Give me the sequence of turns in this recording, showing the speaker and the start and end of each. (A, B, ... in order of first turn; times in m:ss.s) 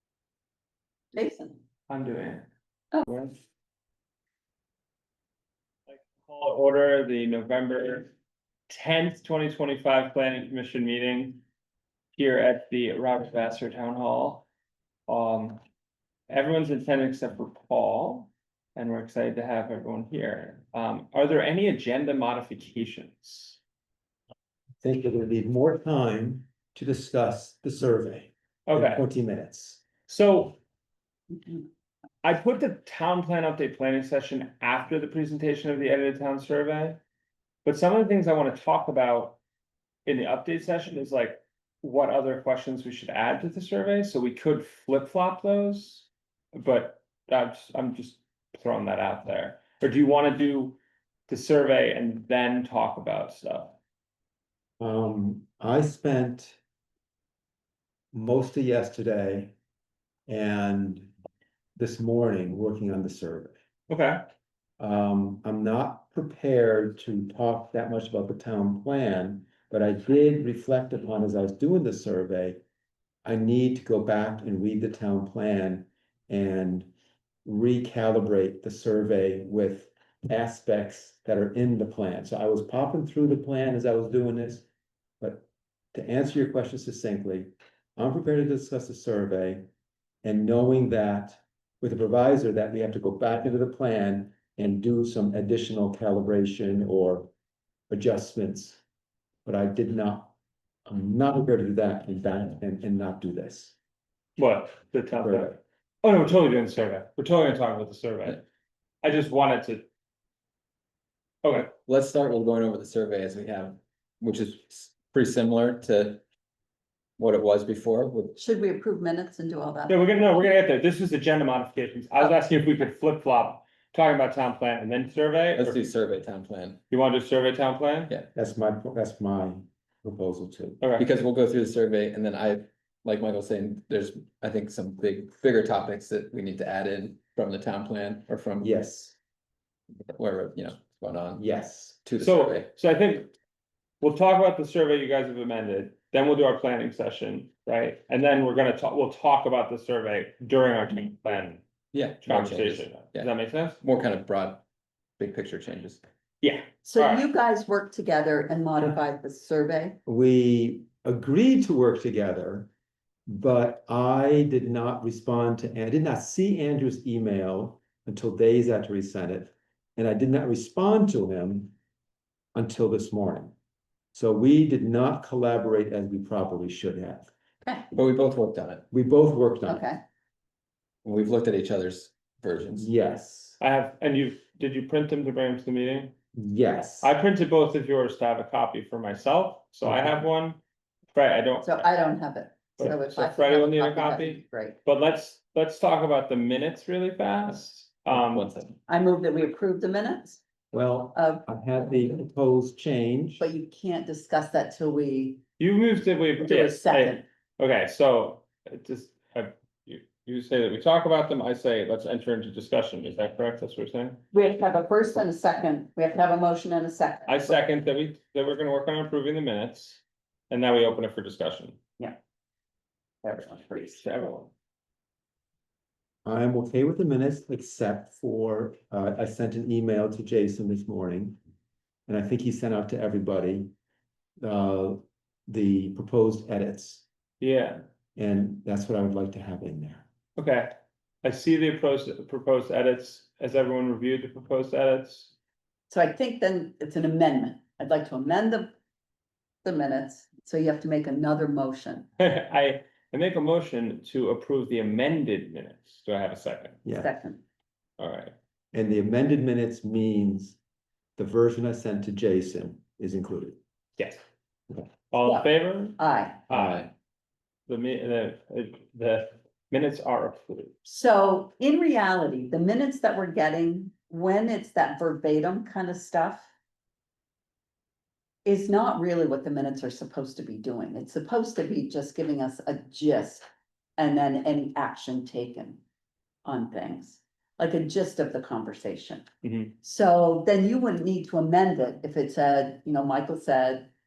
0:01.1-0:01.6 A
0:01.9-0:02.5 B
0:03.1-0:03.3 B
0:05.9-0:08.1 B
0:08.7-0:11.4 B
0:12.2-0:14.4 B
0:15.1-0:15.6 B
0:16.3-0:23.6 B
0:24.8-0:29.8 C
0:28.7-0:29.0 B
0:30.1-0:30.6 B
0:32.2-0:37.0 B
0:37.6-0:39.4 B
0:40.0-0:53.8 B
0:54.8-0:56.6 C
0:58.1-0:59.5 C
1:00.3-1:01.1 C
1:01.8-1:03.5 C
1:03.9-1:04.2 B
1:04.8-1:12.6 C
1:13.2-1:16.9 C
1:17.4-1:24.7 C
1:25.2-1:29.7 C
1:30.2-1:37.3 C
1:37.9-1:38.8 C
1:39.4-1:40.3 C
1:40.9-1:43.7 C
1:44.4-1:48.4 B
1:45.2-1:45.6 C
1:49.0-1:49.8 B
1:51.4-1:51.7 B
1:51.9-1:56.2 D
1:57.2-1:58.4 D
1:58.4-2:00.1 A
1:59.9-2:05.9 B
2:05.6-2:06.8 D
2:06.9-2:08.1 B
2:08.3-2:10.8 C
2:10.8-2:11.1 B
2:11.0-2:18.8 D
2:18.6-2:19.1 C
2:20.1-2:21.4 D
2:21.4-2:22.0 C
2:22.0-2:22.7 D
2:22.2-2:23.3 B
2:24.0-2:31.6 B
2:31.9-2:33.3 D
2:32.2-2:33.8 B
2:33.8-2:34.6 D
2:35.2-2:36.0 D
2:36.4-2:37.2 B
2:36.8-2:40.0 A
2:40.0-2:42.7 C
2:43.3-2:51.7 C
2:52.5-2:53.5 C
2:54.1-2:57.3 C
2:57.9-2:58.8 D
2:58.9-2:59.8 C
2:59.7-3:00.0 A
3:01.0-3:02.9 D
3:02.7-3:03.6 C
3:03.6-3:06.1 B
3:06.3-3:07.1 C
3:07.0-3:10.6 B
3:09.8-3:10.2 C
3:11.1-3:11.9 B
3:11.6-3:14.8 A
3:12.8-3:18.5 B
3:18.1-3:18.8 D
3:18.9-3:20.4 A
3:20.7-3:23.4 C
3:21.1-3:21.4 A
3:23.4-3:25.4 A
3:25.6-3:34.2 B
3:26.4-3:27.2 A
3:34.3-3:37.6 A
3:37.2-3:41.8 B
3:43.2-3:44.0 A
3:43.8-3:44.5 B
3:46.2-3:51.4 C
3:52.1-3:53.7 C
3:54.4-3:57.0 C
3:57.4-3:57.8 B
3:58.2-4:00.0 C
4:00.4-4:00.7 B
4:01.2-4:05.3 B
4:05.9-4:08.7 A
4:09.6-4:12.1 A
4:12.2-4:16.8 B
4:16.8-4:17.1 C
4:17.0-4:17.4 A
4:18.0-4:18.3 B
4:18.7-4:20.6 C
4:21.2-4:23.6 C
4:25.1-4:26.9 B
4:25.2-4:26.4 A
4:26.5-4:26.9 D
4:27.7-4:30.7 B
4:30.8-4:36.5 A
4:38.4-4:43.4 A
4:44.0-4:45.8 A
4:46.4-4:49.2 A
4:49.4-4:49.7 B
4:49.8-4:53.9 A